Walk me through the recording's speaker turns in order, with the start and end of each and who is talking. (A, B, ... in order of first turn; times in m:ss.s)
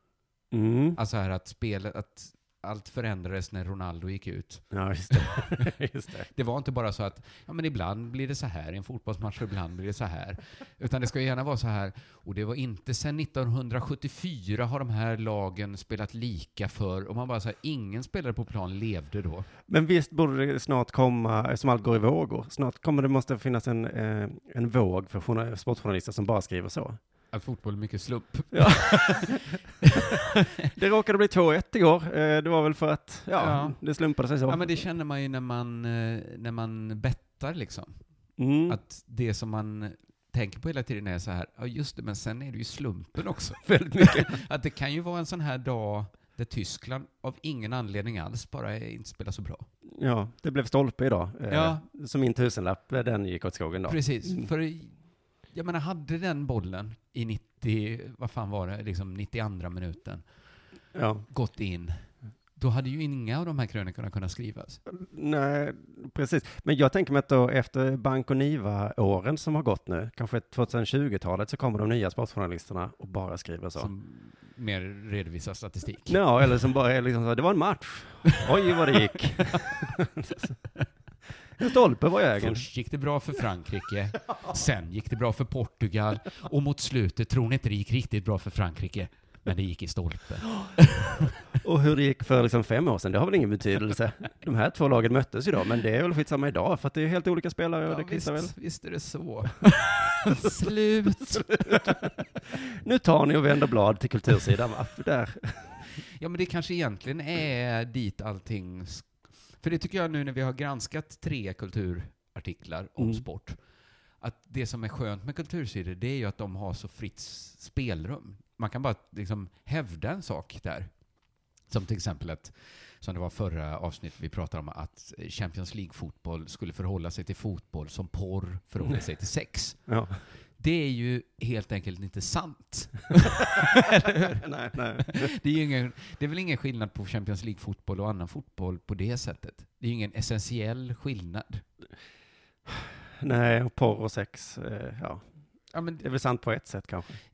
0:00.5-0:01.0 A
0:01.0-0:05.7 B
0:04.7-0:06.3 A
0:06.3-0:19.5 B
0:19.7-0:27.0 A
0:27.3-0:30.5 B
0:28.5-0:29.4 A
0:30.6-0:34.8 A
0:33.4-0:33.8 B
0:34.5-0:38.0 B
0:38.4-0:38.8 A
0:38.7-0:49.7 B
0:43.6-0:44.3 A
0:49.9-0:54.5 A
0:51.5-0:51.8 B
0:53.9-0:55.0 B
0:55.5-1:00.2 B
1:00.9-1:01.2 A
1:01.3-1:02.0 B
1:02.6-1:04.8 B
1:04.9-1:13.9 A
1:13.8-1:16.2 B
1:16.1-1:20.5 A
1:21.6-1:22.6 A
1:22.3-1:31.4 B
1:31.6-1:38.5 A
1:37.9-1:42.0 B
1:41.3-1:42.0 A
1:42.5-1:45.8 A
1:46.0-1:53.6 B
1:54.2-2:00.9 B
2:01.7-2:09.8 B
2:09.9-2:10.2 A
2:10.6-2:14.4 B
2:14.2-2:15.3 A
2:15.0-2:21.6 B
2:22.7-2:25.2 A
2:25.7-2:26.0 B
2:26.0-2:27.2 A